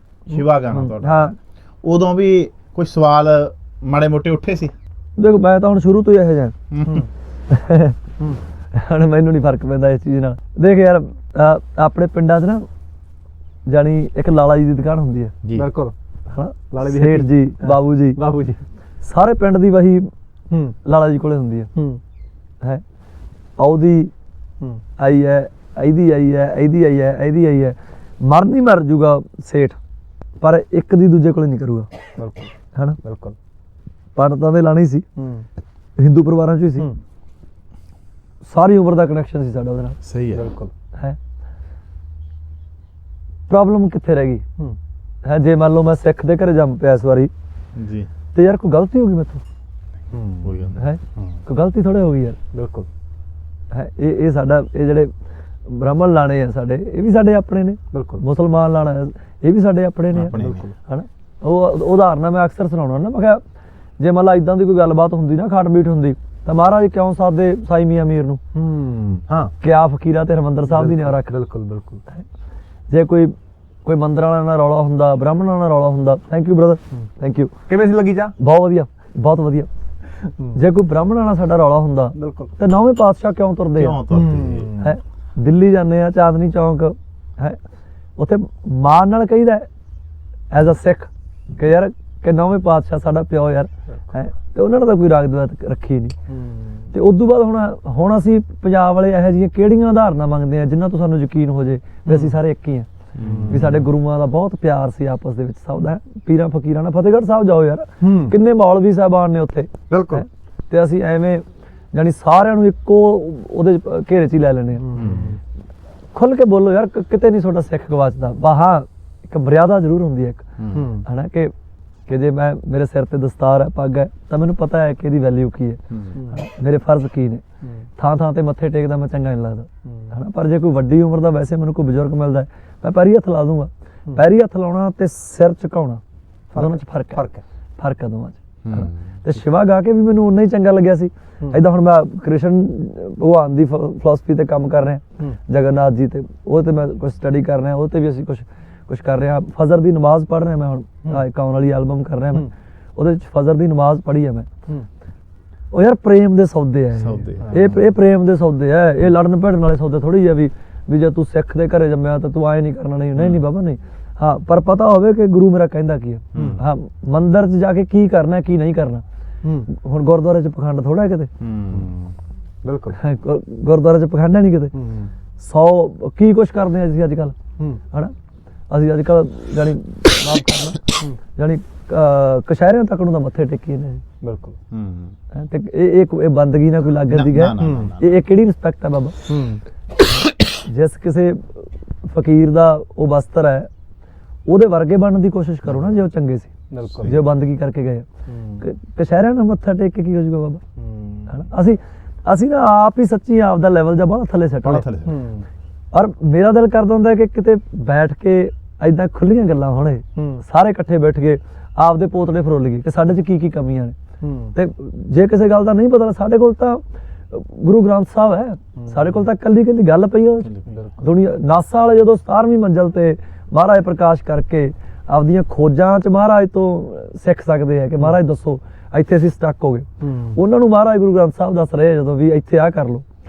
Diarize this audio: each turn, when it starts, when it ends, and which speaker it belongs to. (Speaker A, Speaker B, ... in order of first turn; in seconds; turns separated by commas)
Speaker A: 0.2-4.7, Speaker B: 0.7-1.3, Speaker B: 5.2-6.5, Speaker A: 6.7-7.1, Speaker B: 7.5-8.0, Speaker B: 8.7-12.6, Speaker B: 13.7-15.3, Speaker A: 15.4-15.7, Speaker C: 15.5-15.9, Speaker B: 16.3-18.2, Speaker C: 16.7-18.6, Speaker B: 19.0-20.1, Speaker C: 20.5-20.8, Speaker B: 20.8-21.7, Speaker C: 21.7-22.0, Speaker B: 23.6-24.1, Speaker B: 25.0-29.8, Speaker B: 30.4-31.9, Speaker C: 32.1-33.4, Speaker B: 34.1-35.0, Speaker C: 35.1-35.5, Speaker B: 36.0-36.9, Speaker B: 38.4-40.0, Speaker A: 40.0-40.5, Speaker C: 40.3-40.7, Speaker B: 43.5-44.4, Speaker B: 45.2-47.3, Speaker A: 47.8-48.1, Speaker B: 48.3-49.4, Speaker C: 50.1-50.6, Speaker A: 50.4-51.2, Speaker B: 50.7-52.4, Speaker C: 52.5-52.9, Speaker B: 53.7-55.1, Speaker B: 55.6-63.4, Speaker C: 57.9-58.2, Speaker A: 60.1-60.7, Speaker C: 60.3-60.7, Speaker B: 64.0-68.4, Speaker C: 68.5-69.5, Speaker B: 69.6-71.3, Speaker C: 70.7-72.0, Speaker B: 72.9-73.3, Speaker B: 73.8-77.5, Speaker C: 77.7-78.3, Speaker B: 78.4-79.7, Speaker C: 80.2-80.6, Speaker B: 80.5-84.1, Speaker C: 82.1-82.5, Speaker A: 83.8-84.8, Speaker C: 84.1-85.0, Speaker B: 84.7-87.6, Speaker B: 88.2-89.7, Speaker B: 90.5-96.1, Speaker C: 96.3-96.9, Speaker B: 96.9-102.9, Speaker C: 102.0-102.3, Speaker A: 103.2-103.8, Speaker C: 103.2-103.8, Speaker B: 103.5-115.1, Speaker C: 108.0-108.3, Speaker C: 109.9-110.2, Speaker C: 114.8-115.4, Speaker A: 114.9-115.3, Speaker B: 116.1-121.5, Speaker A: 120.6-120.9, Speaker C: 120.7-121.1, Speaker B: 122.1-127.4, Speaker B: 128.0-136.0, Speaker C: 129.9-130.1, Speaker C: 136.5-137.4, Speaker B: 136.5-137.3, Speaker B: 137.8-154.5, Speaker A: 138.6-138.9, Speaker B: 155.7-169.0, Speaker A: 157.0-157.8, Speaker C: 157.4-157.7, Speaker A: 163.2-163.4, Speaker A: 166.3-166.6, Speaker C: 169.4-169.7, Speaker B: 169.7-171.3, Speaker A: 171.4-172.1, Speaker C: 172.6-173.0, Speaker B: 172.9-174.7, Speaker C: 174.7-175.1, Speaker B: 175.4-177.3, Speaker B: 178.7-184.0, Speaker C: 184.2-184.6, Speaker A: 184.7-185.1, Speaker B: 185.3-189.2, Speaker A: 187.0-188.1, Speaker C: 187.6-187.9, Speaker C: 189.3-189.6, Speaker B: 190.4-193.7, Speaker B: 194.5-196.5, Speaker C: 196.7-197.2, Speaker B: 197.0-198.1, Speaker C: 198.3-198.6, Speaker B: 198.6-200.6, Speaker C: 200.8-201.3, Speaker B: 201.3-204.8, Speaker A: 204.6-205.2, Speaker C: 205.0-205.5, Speaker B: 205.9-213.9, Speaker C: 210.2-210.4, Speaker C: 214.2-214.6, Speaker B: 214.5-233.0, Speaker C: 218.8-219.2, Speaker A: 220.4-220.8, Speaker C: 220.7-221.0, Speaker C: 230.0-230.4